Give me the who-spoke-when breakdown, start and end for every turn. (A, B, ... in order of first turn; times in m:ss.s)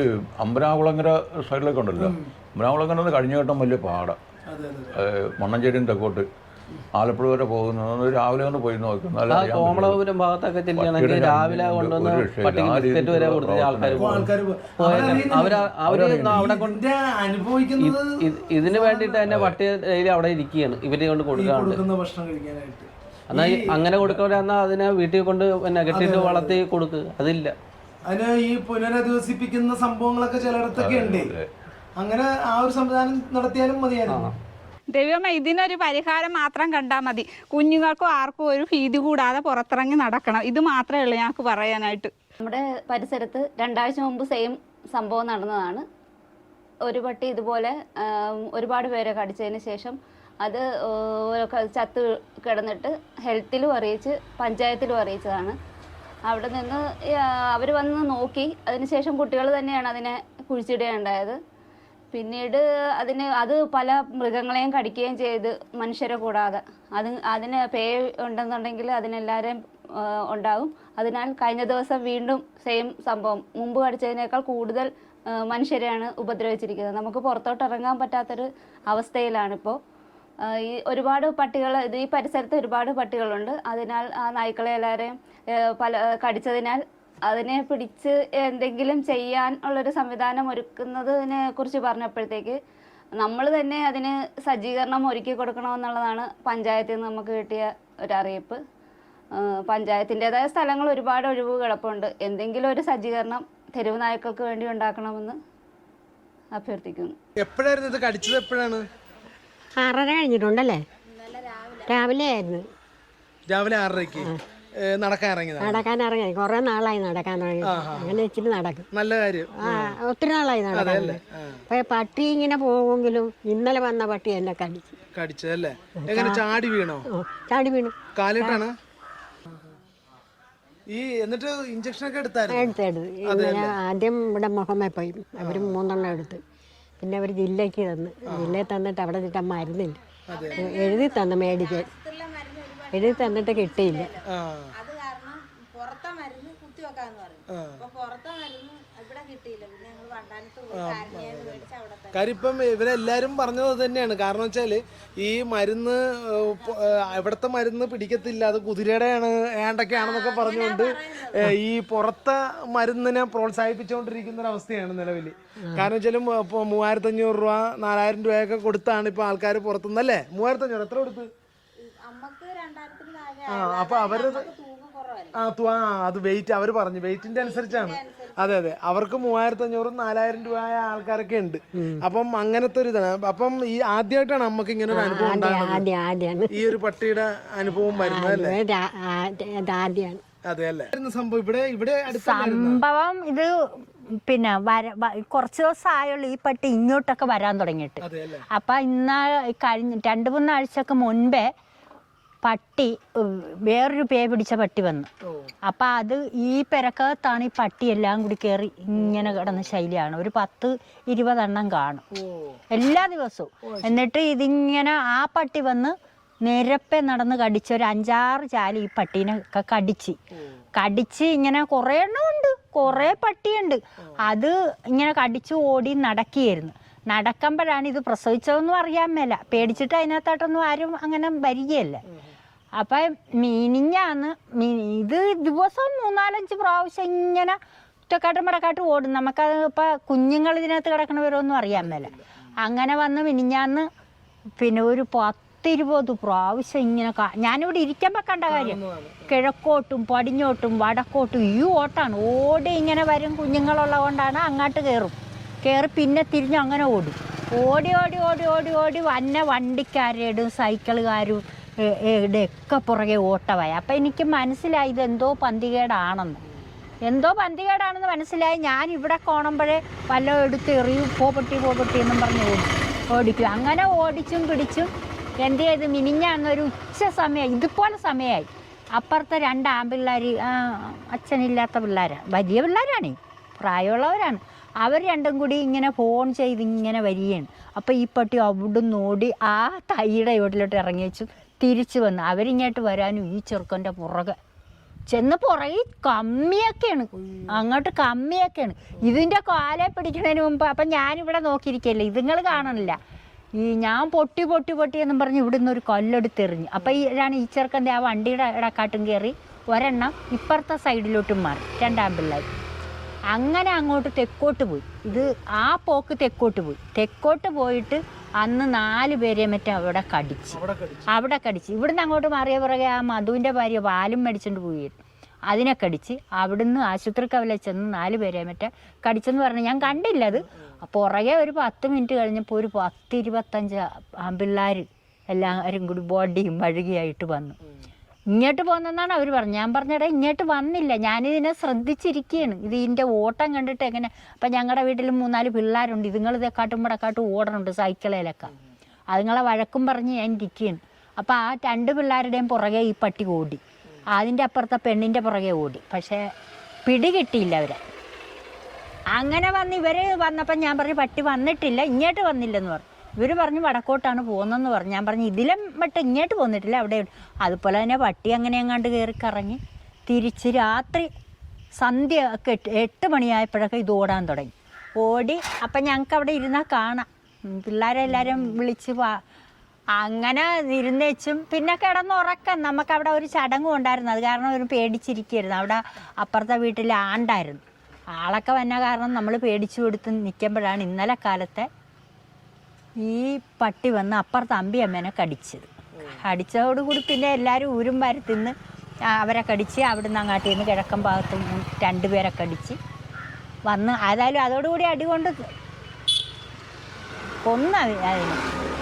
0:00.4-0:04.2 A
0:02.0-0:02.3 B
0:04.5-0:05.0 B
0:04.9-0:06.3 A
0:06.9-0:10.0 A
0:09.3-0:16.8 C
0:10.7-0:14.3 A
0:14.0-0:15.7 B
0:14.8-0:15.3 A
0:15.8-0:16.4 A
0:16.3-0:19.2 B
0:17.8-0:21.8 C
0:19.3-0:19.5 A
0:21.3-0:24.0 B
0:23.3-0:27.5 C
0:25.9-0:26.6 B
0:28.0-0:31.3 B
0:30.8-0:31.5 A
0:32.0-0:34.3 B
0:34.1-0:34.4 C
0:34.9-0:42.1 D
0:42.4-0:45.8 E
0:46.9-0:55.6 E
0:56.3-1:01.4 E
1:02.1-1:19.8 E
1:20.4-1:32.6 E
1:33.2-1:38.6 E
1:39.4-1:45.4 E
1:46.5-1:47.2 E
1:47.4-1:48.8 B
1:49.8-1:50.8 F
1:51.8-1:52.6 F
1:53.5-1:54.3 B
1:54.8-1:55.9 B
1:55.6-1:58.9 F
1:57.6-1:58.2 B
1:58.9-1:59.9 B
1:59.5-2:05.0 F
2:00.7-2:01.6 B
2:05.1-2:07.1 B
2:06.0-2:06.5 F
2:07.1-2:08.6 F
2:08.1-2:08.7 B
2:10.9-2:13.8 B
2:12.5-2:16.4 F
2:15.4-2:15.8 B
2:17.0-2:20.0 F
2:18.3-2:18.6 B
2:20.3-2:20.7 B
2:20.3-2:24.2 G
2:20.6-2:21.9 F
2:22.9-2:24.1 F
2:24.3-2:24.7 B
2:24.8-2:32.4 G
2:27.5-2:27.9 B
2:30.7-2:51.3 B
2:39.9-2:41.3 G
2:45.6-2:45.9 F
2:52.0-2:55.3 G
2:53.5-2:54.5 B
2:55.3-3:05.9 B
2:57.3-2:58.6 G
3:04.9-3:06.8 F
3:06.5-3:08.6 B
3:07.9-3:10.2 F
3:10.4-3:12.8 B
3:12.1-3:18.0 H
3:18.0-3:18.4 B
3:18.5-3:21.5 H
3:22.4-3:25.1 H
3:25.2-3:25.5 B
3:25.6-3:32.0 H
3:32.1-3:32.6 B
3:32.7-3:40.2 H
3:33.6-3:34.0 B
3:40.8-3:52.0 H
3:52.8-3:57.6 H
3:58.1-4:03.9 H
4:01.8-4:02.2 B
4:04.6-4:21.4 H
4:08.5-4:09.3 B
4:21.9-4:26.4 H
4:27.0-4:34.9 H
4:35.4-4:54.4 H
4:55.1-5:03.0 H
5:03.6-5:12.4 H
5:13.3-5:25.0 H
5:20.5-5:21.1 B
5:25.5-5:37.6 H
5:38.3-5:48.5 H
5:49.1-5:53.6 H
5:54.2-5:56.3 H
5:56.9-5:57.8 H
5:59.1-6:11.1 H
6:11.8-6:19.2 H
6:20.0-6:27.6 H
6:28.2-6:31.7 H
6:33.0-6:38.5 H
6:39.1-6:42.8 H
6:43.7-6:45.4 H
6:47.4-6:48.4 H